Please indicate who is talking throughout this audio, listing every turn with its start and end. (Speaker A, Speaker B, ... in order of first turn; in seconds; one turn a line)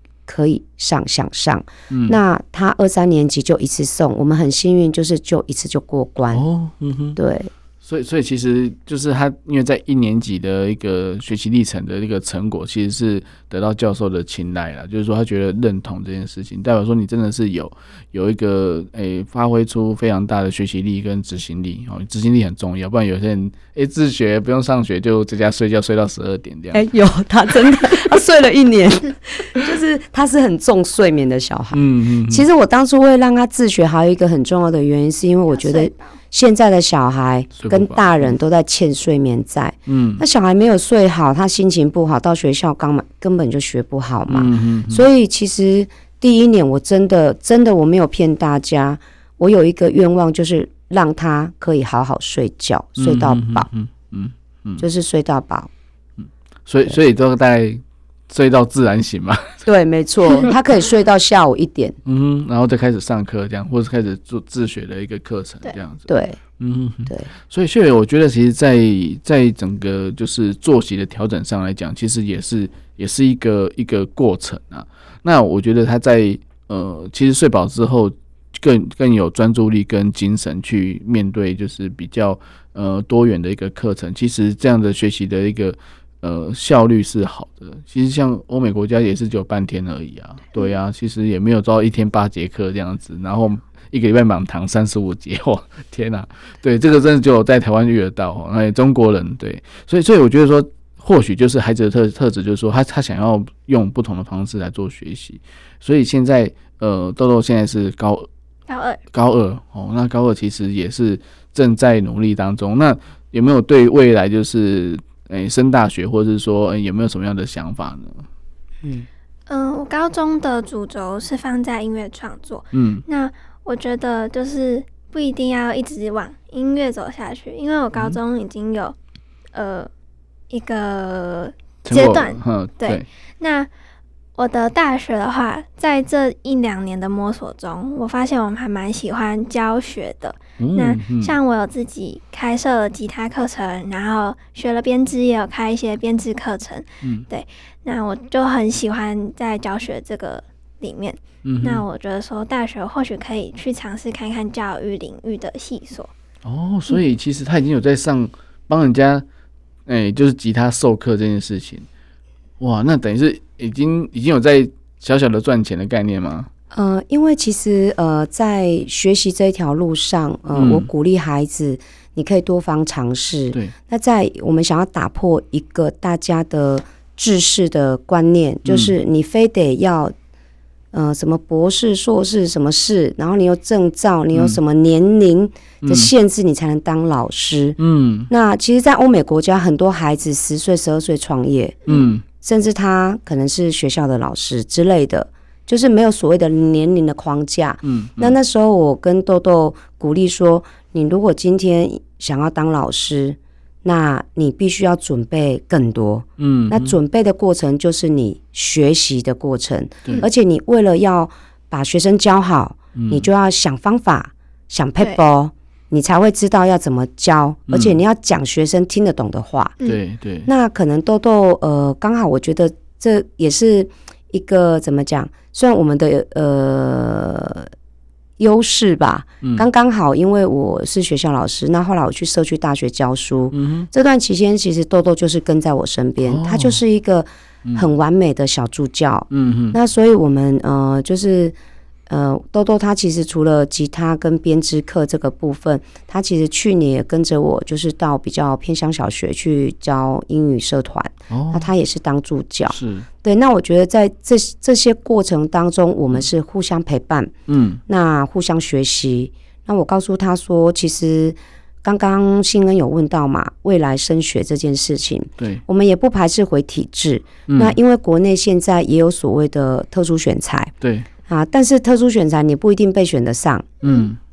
Speaker A: 0.3-6.4
Speaker B: 1.9-2.2
Speaker B: 6.3-7.2
Speaker A: 7.2-7.5
Speaker B: 7.8-26.8
Speaker A: 26.7-53.7
Speaker B: 31.7-32.5
Speaker C: 35.5-36.2
Speaker B: 37.6-38.3
Speaker B: 39.9-40.2
Speaker B: 44.3-45.1
Speaker B: 53.0-54.8
Speaker A: 54.8-55.7
Speaker B: 56.6-59.6
Speaker A: 59.6-62.0
Speaker B: 62.0-108.3
Speaker A: 66.1-66.4
Speaker C: 108.7-109.0
Speaker B: 109.1-118.2
Speaker C: 119.5-128.9
Speaker B: 122.7-123.0
Speaker C: 129.5-129.9
Speaker C: 130.5-133.7
Speaker B: 131.8-133.1
Speaker C: 134.3-156.1
Speaker B: 140.6-141.3
Speaker B: 147.0-147.3
Speaker B: 151.4-151.8
Speaker B: 156.4-159.2
Speaker B: 159.8-161.9
Speaker B: 162.6-166.5
Speaker A: 166.7-180.1
Speaker B: 170.5-170.9
Speaker B: 178.6-178.9
Speaker A: 180.9-187.8
Speaker B: 184.3-184.6
Speaker B: 185.8-186.1
Speaker B: 187.8-188.3
Speaker A: 188.3-191.8
Speaker B: 191.9-192.2
Speaker A: 192.4-219.8
Speaker B: 197.8-198.4
Speaker B: 206.4-207.0
Speaker B: 212.9-213.3
Speaker B: 217.7-218.0
Speaker B: 219.8-220.5
Speaker A: 220.4-227.7
Speaker A: 228.4-241.5
Speaker B: 233.5-233.9
Speaker B: 236.2-236.8
Speaker B: 239.3-239.8
Speaker A: 242.1-257.3
Speaker B: 251.3-251.7
Speaker B: 252.7-253.1
Speaker B: 257.5-257.8
Speaker A: 257.9-270.7
Speaker B: 265.4-265.6
Speaker B: 267.5-267.8
Speaker B: 270.8-271.1
Speaker A: 271.3-273.8
Speaker B: 273.8-274.2
Speaker C: 273.8-274.1